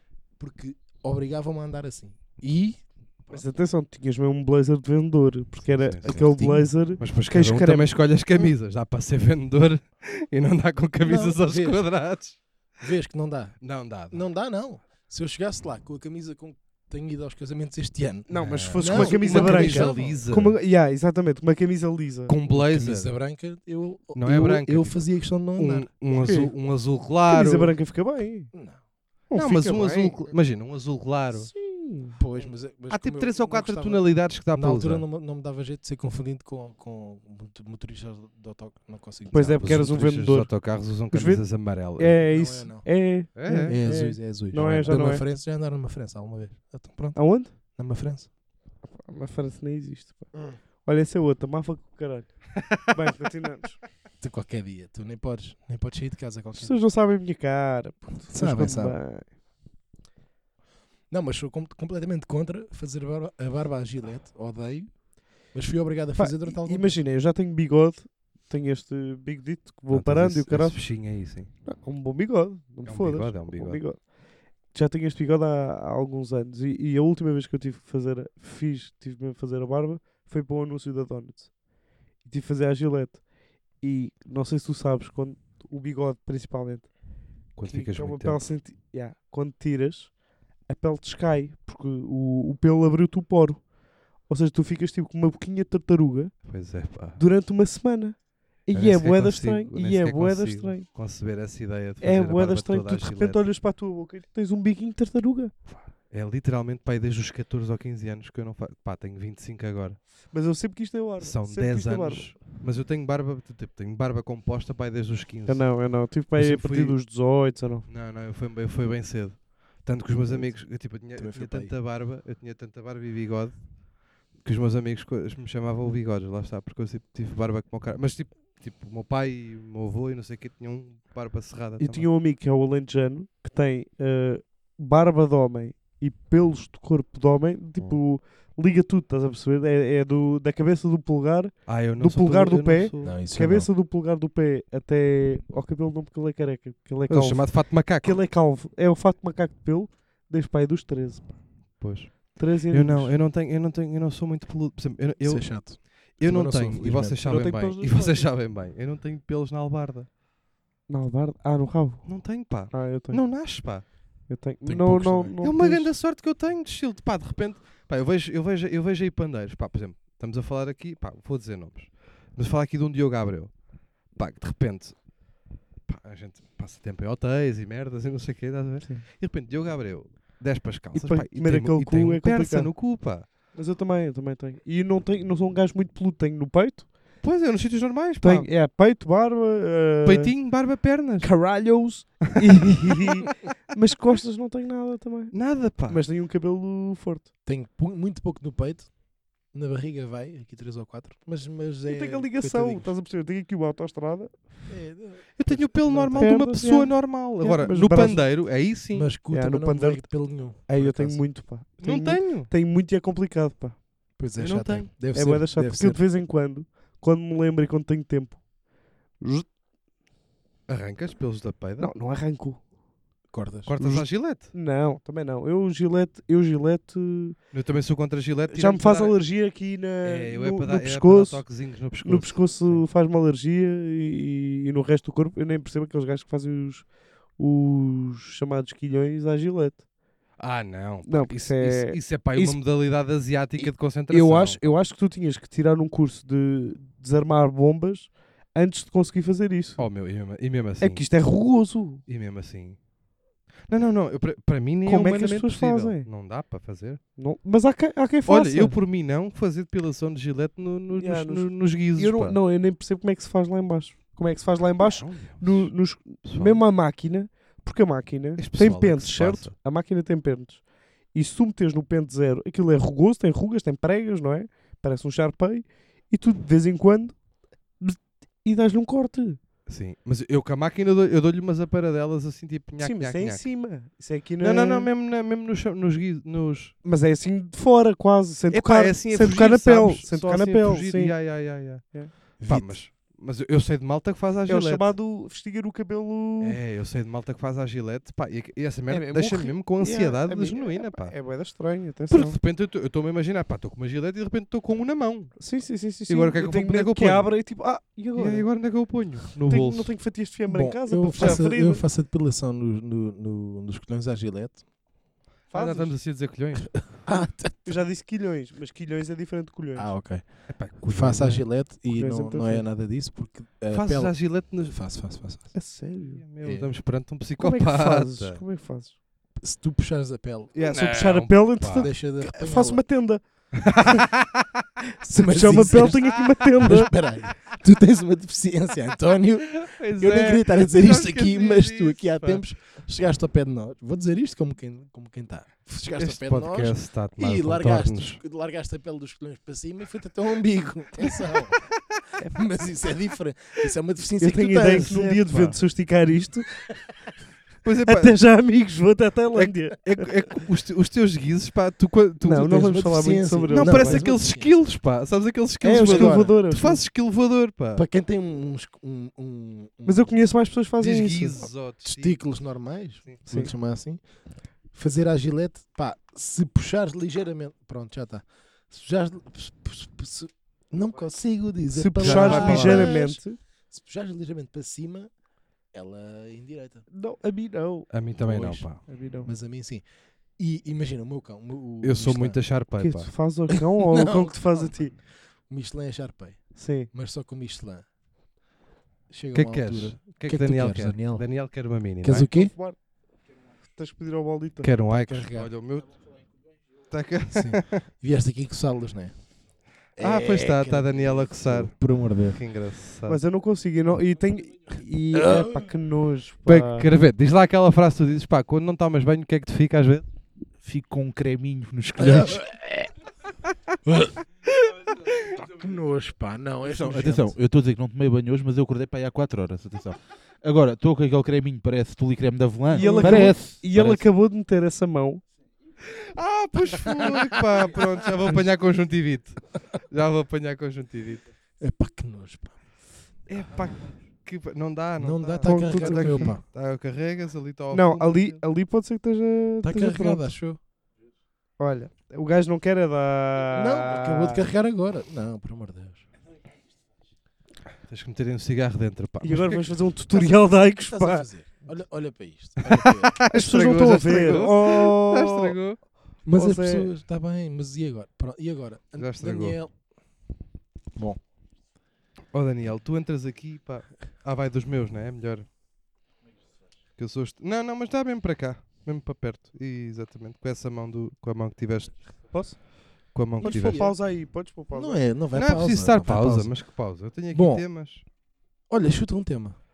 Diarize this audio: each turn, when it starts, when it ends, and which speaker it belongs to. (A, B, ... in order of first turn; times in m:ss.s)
0:00.4-0:03.4 A
0:03.3-0:08.5 B
0:05.8-0:06.3 C
0:06.0-0:06.7 A
0:07.0-0:12.4 C
0:11.0-0:11.9 A
0:12.8-0:20.3 A
0:13.6-0:14.2 C
0:18.3-0:22.3 B
0:18.3-0:20.6 C
0:22.3-0:23.1 C
0:22.5-0:25.9 A
0:24.2-0:25.0 C
0:25.6-0:27.7 C
0:26.1-0:26.5 B
0:27.3-0:28.5 B
0:28.5-0:28.8 A
0:29.3-0:30.3 B
0:29.3-0:31.5 C
0:31.4-0:32.2 B
0:32.2-0:39.7 A
0:32.9-0:35.0 C
0:39.3-0:45.2 B
0:39.6-0:42.2 C
0:42.3-0:42.9 A
0:43.4-0:43.8 C
0:43.5-0:48.3 A
0:47.2-0:47.5 B
0:48.9-0:50.3 B
0:50.8-0:53.8 B
0:54.2-0:56.8 A
0:56.6-0:59.3 B
0:58.3-0:59.0 A
1:01.1-1:07.0 A
1:06.2-1:10.9 B
1:09.9-1:11.5 C
1:11.6-1:14.1 B
1:12.8-1:13.8 C
1:14.7-1:21.5 B
1:22.2-1:23.2 B
1:23.8-1:26.9 B
1:27.6-1:28.4 C
1:27.7-1:30.1 B
1:30.7-1:36.3 B
1:36.4-1:37.2 C
1:37.2-1:40.9 B
1:38.7-1:43.4 C
1:42.0-1:45.5 B
1:45.7-1:50.0 C
1:50.3-1:52.4 B
1:51.2-1:57.0 C
1:55.5-1:57.9 B
1:57.9-2:03.6 C
2:00.3-2:00.6 A
2:01.1-2:01.7 A
2:04.4-2:12.1 C
2:11.8-2:31.4 B
2:21.7-2:23.2 C
2:23.0-2:23.7 A
2:27.1-2:28.2 C
2:31.8-2:40.1 C
2:32.4-2:33.1 B
2:35.2-2:37.2 A
2:37.2-2:38.3 B
2:40.9-2:43.2 B
2:42.1-2:43.8 C
2:44.3-2:45.9 B
2:44.7-2:55.0 C
2:55.9-3:03.3 C
3:00.9-3:02.7 B
3:03.5-3:06.9 B
3:07.2-3:08.5 C
3:08.2-3:10.3 B
3:10.0-3:11.4 C
3:11.2-3:17.3 B
3:12.2-3:13.1 C
3:15.3-3:16.0 C
3:17.5-3:19.0 A
3:19.5-3:22.9 A
3:21.9-3:24.4 B
3:24.7-3:26.3 A
3:25.4-3:29.1 C
3:26.2-3:28.2 B
3:28.9-3:31.2 A
3:29.3-3:33.8 B
3:31.8-3:32.5 C
3:34.2-3:36.0 A
3:34.4-3:34.9 C
3:35.1-3:38.4 B
3:39.2-3:39.5 B
3:40.7-3:41.9 C
3:41.8-3:42.6 B
3:43.3-3:43.7 A
3:43.7-3:44.5 C
3:43.8-3:47.4 B
3:47.5-3:49.2 C
3:48.5-3:51.4 B
3:50.0-3:52.8 C
3:52.0-3:56.9 B
3:57.4-3:59.8 B
4:00.4-4:04.7 C
4:01.1-4:02.6 B
4:03.6-4:09.8 B
4:09.8-4:11.1 C
4:10.8-4:12.0 B
4:12.1-4:12.8 C
4:13.7-4:17.0 C
4:14.8-4:16.1 B
4:17.2-4:18.8 B
4:18.3-4:22.4 C
4:21.0-4:30.6 B
4:24.8-4:25.7 C
4:26.2-4:26.6 C
4:28.4-4:29.5 C
4:31.1-4:37.2 B
4:37.8-4:39.4 B
4:39.7-4:43.4 C
4:42.8-4:44.9 B
4:44.4-4:46.7 C
4:46.8-4:51.2 B
4:48.5-4:54.9 C
4:51.8-4:52.1 B
4:52.4-4:52.8 A
4:54.5-4:56.6 B
4:56.4-5:01.2 C
4:58.9-5:02.4 B
5:02.1-5:05.4 C
5:05.4-5:08.5 B
5:06.1-5:07.4 C
5:08.2-5:09.9 C
5:09.5-5:11.8 B
5:10.5-5:14.6 A
5:15.5-5:16.9 C
5:15.5-5:16.0 B
5:16.8-5:17.7 A
5:17.6-5:19.9 B
5:19.8-5:25.6 A
5:20.5-5:21.4 C
5:21.9-5:22.6 B
5:23.7-5:24.8 C
5:25.5-5:26.2 B
5:26.2-5:28.4 C
5:26.4-5:26.7 A
5:27.4-5:29.0 B
5:29.4-5:30.6 A
5:30.6-5:31.9 C
5:30.6-5:34.1 B
5:31.8-5:32.8 A
5:33.5-5:34.5 C
5:35.0-5:36.9 B
5:35.2-5:51.6 A
5:35.8-5:36.2 C
5:39.6-5:42.4 C
5:46.0-5:48.2 C
5:52.2-5:55.2 A
5:54.2-5:56.6 B
5:55.2-5:55.6 C
5:57.6-5:58.2 C
5:57.8-6:00.1 B
5:59.4-6:02.7 C
6:02.2-6:04.1 B
6:02.5-6:04.6 A
6:03.5-6:07.8 C
6:05.6-6:06.8 B
6:05.8-6:06.4 A
6:07.8-6:10.2 A
6:09.9-6:11.4 B
6:10.8-6:12.2 C
6:11.8-6:14.0 A
6:13.3-6:13.5 B
6:14.7-6:25.1 A
6:21.7-6:23.4 B
6:22.0-6:23.0 C
6:25.7-6:26.9 A
6:26.9-6:27.9 B
6:27.9-6:28.8 C
6:28.2-6:29.8 A
6:28.9-6:29.3 B
6:30.4-6:32.4 A
6:31.8-6:33.1 C
6:32.8-6:34.9 B
6:33.7-6:37.9 A
6:36.6-6:36.9 B
6:39.1-6:41.3 A
6:39.3-6:42.3 C
6:42.0-6:42.5 A
6:42.3-6:42.8 B
6:43.7-6:44.7 B
6:44.6-6:46.0 C
6:45.0-6:45.5 A
6:46.9-6:47.8 C
6:47.3-6:49.3 A
6:50.0-6:52.4 A
6:50.0-6:53.2 C
6:53.1-6:56.9 B
6:56.5-7:00.0 C
7:00.6-7:02.4 D
7:02.0-7:02.9 A
7:03.9-7:04.2 A
7:05.3-7:07.4 A
7:06.6-7:14.0 D
7:12.7-7:15.2 B
7:12.8-7:13.4 A
7:15.8-7:21.2 C
7:21.6-7:22.6 A
7:23.3-7:28.4 C
7:25.0-7:26.4 A
7:25.4-7:26.4 B
7:27.7-7:30.3 B
7:29.6-7:30.6 A
7:31.6-7:34.4 B
7:33.5-7:36.0 A
7:37.9-7:39.8 C
7:39.2-7:41.3 B
7:40.1-7:43.2 A
7:42.7-7:45.8 C
7:43.3-7:45.6 B
7:46.2-7:49.8 A
7:46.3-7:46.9 B
7:49.0-7:49.6 C
7:52.3-7:55.5 C
7:57.0-8:02.3 C
8:02.3-8:02.6 B
8:03.1-8:03.9 C
8:03.4-8:04.0 A
8:03.4-8:05.0 B
8:04.7-8:06.5 A
8:05.3-8:08.0 C
8:07.3-8:07.6 A
8:08.7-8:09.6 A